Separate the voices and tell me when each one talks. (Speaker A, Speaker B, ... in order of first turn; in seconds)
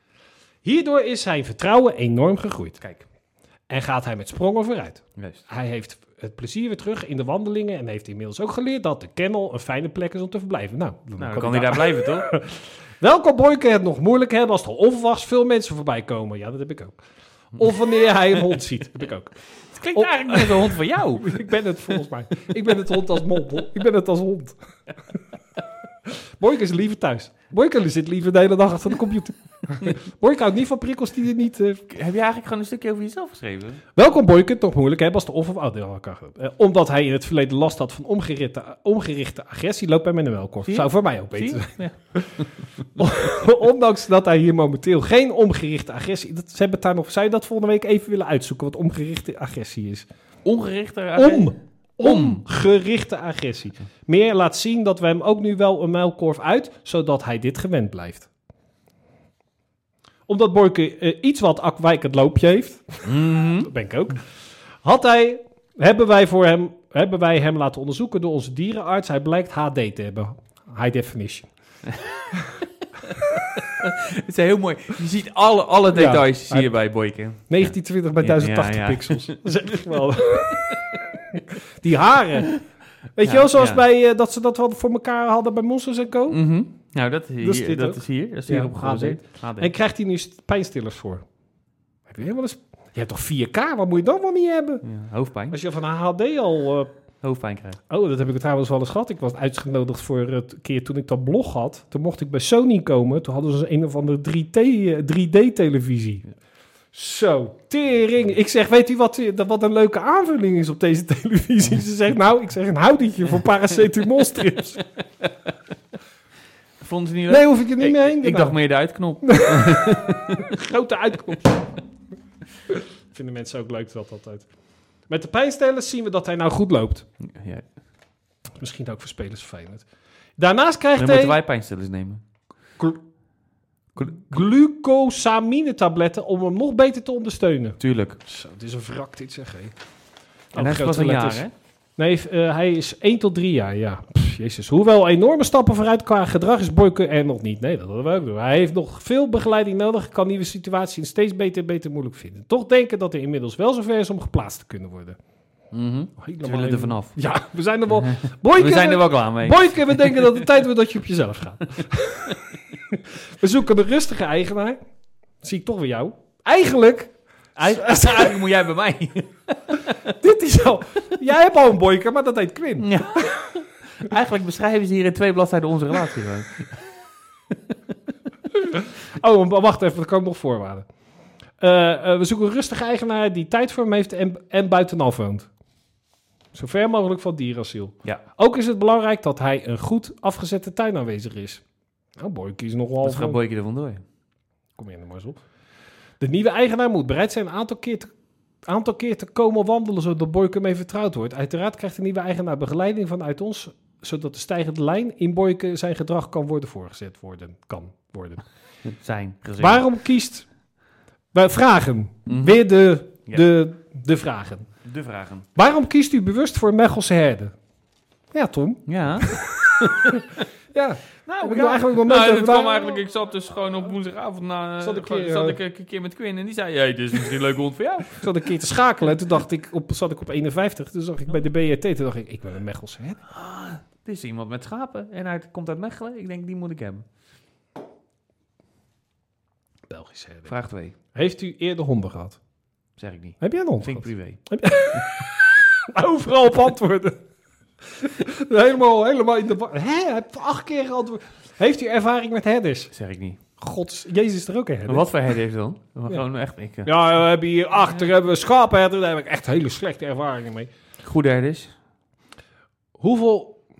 Speaker A: 0.6-2.8, 3.7-17.0, 17.6-19.3, 19.9-24.6, 26.4-31.8, 34.0-42.4, 43.0-50.1, 51.2-58.3, 60.3-64.2, 64.8-71.5, 75.9-76.7, 77.5-80.7, 81.3-82.5, 83.2-86.4, 87.4-91.2, 92.1-94.8, 95.5-96.9, 97.9-106.2, 106.9-114.8, 117.3-118.5, 119.3-121.6, 122.7-124.5, 125.1-127.1, 128.6-129.8, 130.4-131.4, 134.0-139.7, 140.5-141.5, 142.0-155.2, 156.2-162.3, 163.4-164.8, 165.4-168.4, 170.2-172.9, 178.6-180.9, 181.6-185.5, 186.5-191.6, 192.2-193.4, 194.8-195.4, 196.2-198.1, 198.7-208.4, 209.6-210.5, 211.3-214.7, 215.6-217.6, 218.3-223.0, 224.8-225.6, 228.2-233.2, 239.9-240.5, 241.1-242.4, 243.4-247.2, 247.9-252.9, 253.6-255.1, 256.8-260.7, 263.0-263.6
Speaker B: 5.2-5.4, 11.2-12.3, 19.7-21.4, 31.9-33.8, 40.6-42.5, 50.5-52.4, 63.1-63.7, 73.4-79.4, 83.2-83.8, 86.3-89.7, 94.8-95.6, 97.2-97.8, 116.8-120.5, 127.3-127.6, 131.0-132.2, 134.0-134.2, 137.8-138.2, 140.6-141.5, 155.7-157.2, 157.9-160.5, 167.6-170.1, 172.8-176.8, 193.0-194.0, 208.9-209.8, 212.3-212.6, 214.8-215.5, 218.9-220.4, 221.3-228.5, 233.3-237.1, 240.5-240.9, 243.0-244.4, 252.9-253.4, 254.9-256.9, 261.0-261.7